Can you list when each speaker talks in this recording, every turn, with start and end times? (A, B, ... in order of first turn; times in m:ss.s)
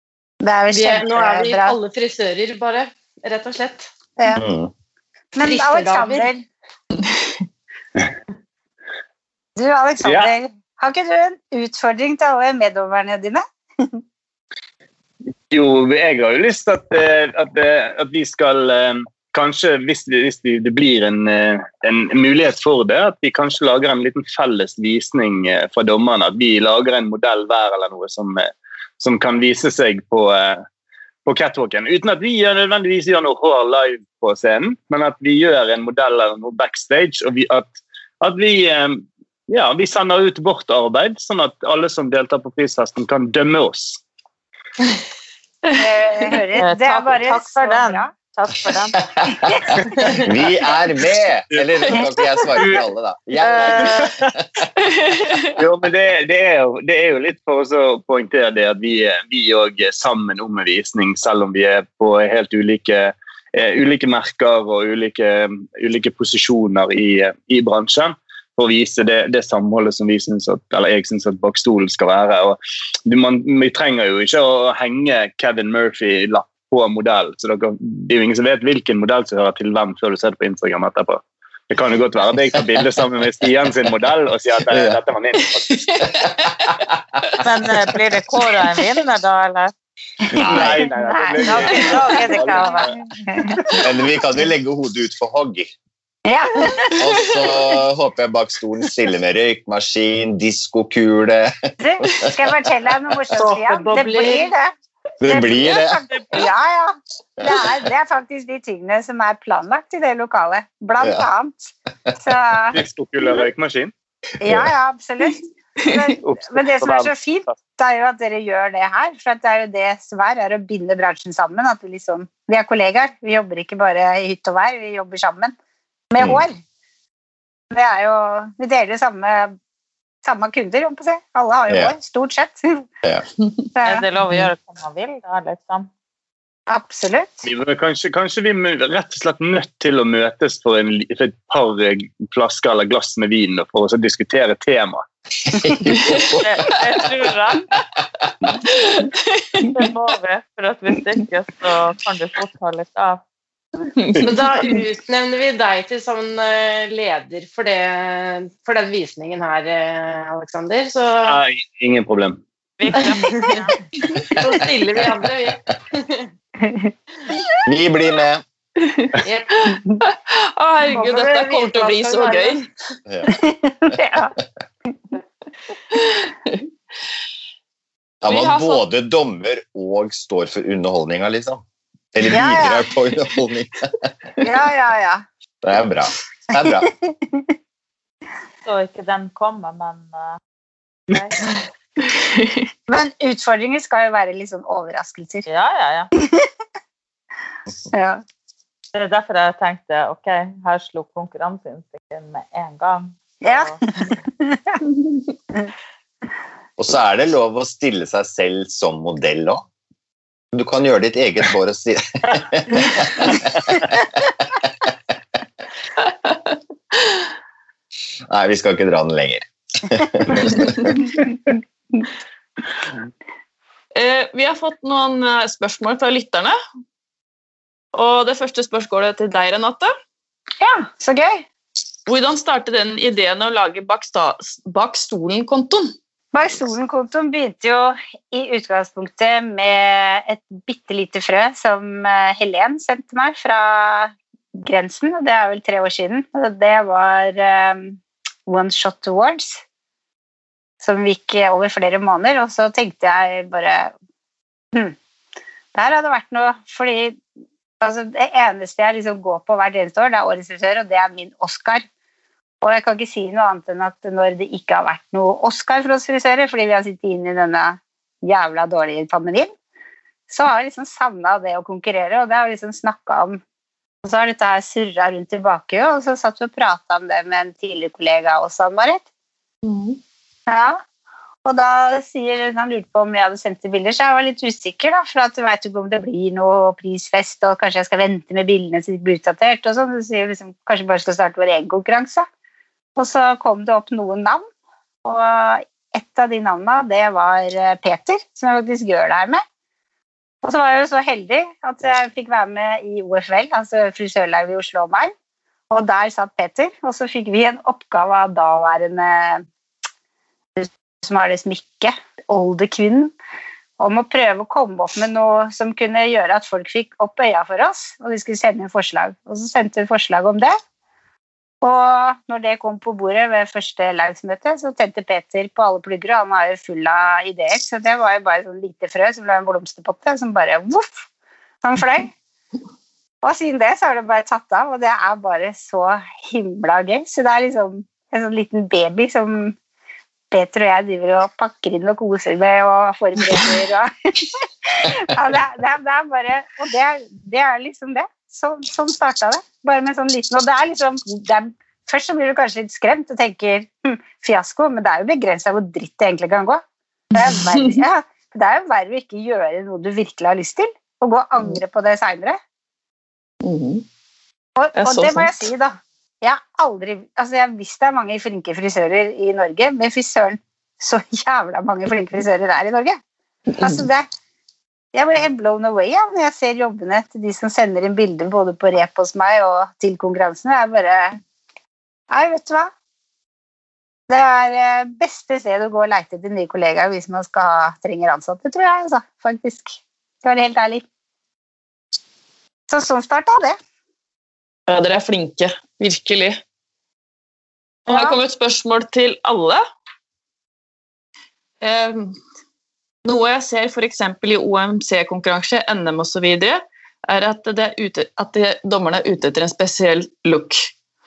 0:00.4-0:01.8 A
0:00.7-0:03.9 B
0:04.3-0:04.7 C
0:05.4-0:06.4 A
0:05.4-0:06.3 B
0:07.0-0:07.4 D
0:09.6-0:14.0 A
0:10.0-0:10.3 E
0:15.5-0:30.6 E
0:31.3-0:44.0 E
0:45.8-0:48.1 A
0:46.6-0:49.0 F
0:50.2-0:54.2 C
0:53.4-0:54.1 F
0:54.8-0:55.6 D
0:55.6-1:25.8 E
1:22.5-1:22.9 C
1:24.7-1:25.0 C
1:25.7-1:26.3 D
1:26.2-1:27.3 C
1:27.4-1:29.7 F
1:30.3-1:30.8 C
1:30.4-1:32.9 E
1:30.5-1:33.8 A
1:31.4-1:32.9 F
1:33.8-1:35.7 C
1:36.3-1:37.0 A
1:37.0-1:42.5 C
1:41.8-1:44.7 A
1:43.4-1:44.5 B
1:45.2-1:46.0 C
1:45.2-1:51.6 A
1:52.2-1:52.8 A
1:52.7-1:53.9 E
1:54.4-2:05.5 A
1:54.4-1:54.7 C
1:55.8-1:56.2 D
1:56.2-1:57.5 E
2:06.1-2:06.6 A
2:06.2-2:06.4 C
2:07.7-2:09.6 A
2:10.2-2:12.8 A
2:11.7-2:12.0 C
2:13.8-2:14.0 A
2:13.8-2:15.9 F
2:16.7-2:17.5 A
2:17.4-2:25.0 E
2:25.5-2:26.4 C
2:25.9-2:26.3 D
2:26.4-2:27.6 F
2:28.7-2:29.7 D
2:29.7-2:33.2 F
2:34.0-2:34.8 D
2:34.2-2:41.4 B
2:41.3-2:42.4 E
2:42.8-2:43.8 F
2:44.4-2:46.3 B
2:46.6-2:46.9 A
2:47.7-2:48.4 C
2:48.8-2:52.6 D
2:49.2-2:49.6 B
2:50.9-2:52.4 A
2:53.3-2:54.3 A
2:55.9-2:56.6 D
2:58.2-3:01.6 C
2:58.3-2:58.8 D
3:02.1-3:03.7 C
3:02.3-3:02.9 A
3:04.4-3:05.2 A
3:05.6-3:06.9 C
3:08.6-3:10.4 F
3:11.1-3:11.4 F
3:12.2-3:12.6 D
3:12.9-3:15.5 A
3:15.5-3:16.1 F
3:17.9-3:18.2 A
3:18.9-3:23.8 F
3:23.4-3:24.8 A
3:26.8-3:29.6 C
3:30.5-3:33.8 C
3:38.3-3:41.0 C
3:44.0-3:46.6 D
3:47.9-3:49.9 D
3:50.6-3:51.4 A
3:52.1-3:55.9 D
3:56.3-4:09.6 A
4:10.8-4:13.9 A
4:15.7-4:17.2 A
4:17.8-4:21.8 A
4:22.6-4:29.5 A
4:30.3-4:33.4 A
4:34.0-4:39.0 A
4:39.6-4:40.0 D
4:40.5-4:40.8 A
4:41.5-4:52.3 A
4:53.0-4:54.5 A
4:55.0-4:59.4 A
5:00.4-5:05.1 A
5:05.7-5:09.4 A
5:10.6-5:13.1 A
5:13.8-5:20.6 A
5:21.6-5:31.0 A
5:31.6-5:32.1 A
5:33.2-5:39.6 A
5:40.3-5:56.6 A
5:57.1-5:57.7 D
5:57.1-6:02.4 A
6:03.4-6:03.8 D
6:04.6-6:13.0 A
6:04.8-6:05.5 D
6:13.5-6:13.8 D
6:13.6-6:14.1 A
6:14.9-6:21.2 A
6:22.1-6:22.7 A
6:24.1-6:30.8 A
6:32.7-6:33.6 A
6:34.7-6:36.4 D
6:37.9-6:39.6 D
6:37.9-6:38.2 A
6:41.6-6:42.2 D
6:43.0-6:50.7 D